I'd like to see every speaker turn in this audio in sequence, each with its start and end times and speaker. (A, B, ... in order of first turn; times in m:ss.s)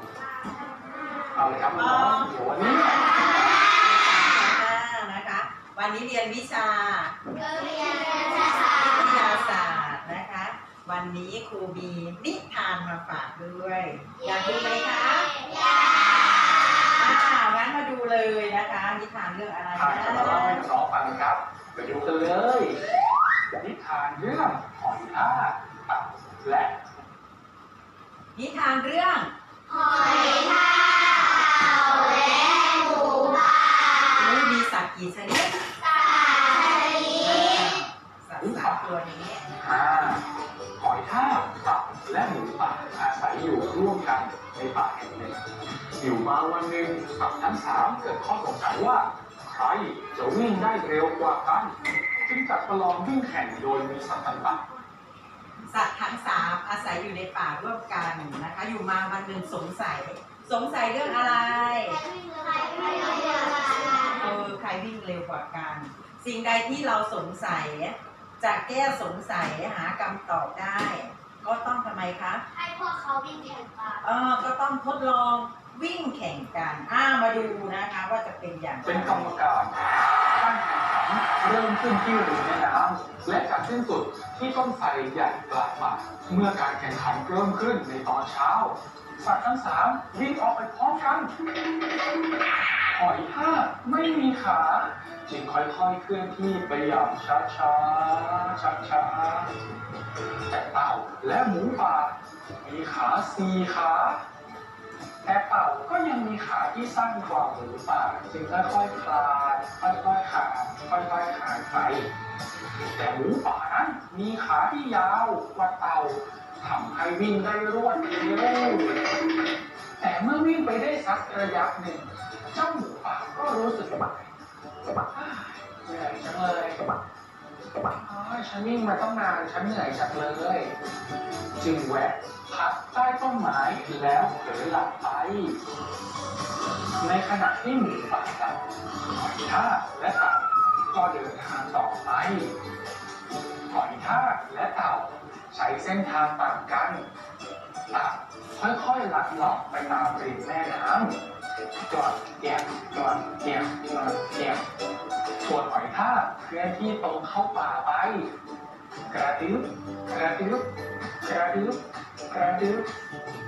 0:01.3-0:03.2 A
0:01.8-0:02.3 B
0:03.2-0:07.2 B
0:07.5-0:08.6 C
0:08.8-0:15.4 B
0:16.9-0:20.6 B
0:19.8-0:22.8 A
0:23.6-0:26.8 A
0:28.4-0:29.3 B
0:29.7-0:30.9 C
0:31.6-0:32.3 C
0:32.9-0:33.3 C
0:34.1-0:35.6 B
0:37.1-0:39.4 B
0:38.4-0:39.0 A
0:39.6-0:40.3 A
0:40.8-0:45.4 A
0:46.0-0:54.7 A
0:55.7-1:02.0 B
1:01.7-1:04.2 C
1:04.1-1:12.4 B
1:12.5-1:14.0 C
1:14.0-1:19.3 B
1:18.8-1:31.3 A
1:32.9-1:39.6 A
1:40.5-1:44.2 A
1:45.2-1:52.1 A
1:52.9-1:59.2 A
2:00.0-2:04.3 A
2:05.1-2:06.8 A
2:07.8-2:10.8 A
2:11.6-2:15.6 A
2:17.0-2:22.6 A
2:23.7-2:27.1 A
2:27.9-2:31.2 A
2:31.8-2:34.7 A
2:35.4-2:38.3 A
2:39.1-2:40.7 A
2:41.2-2:42.9 A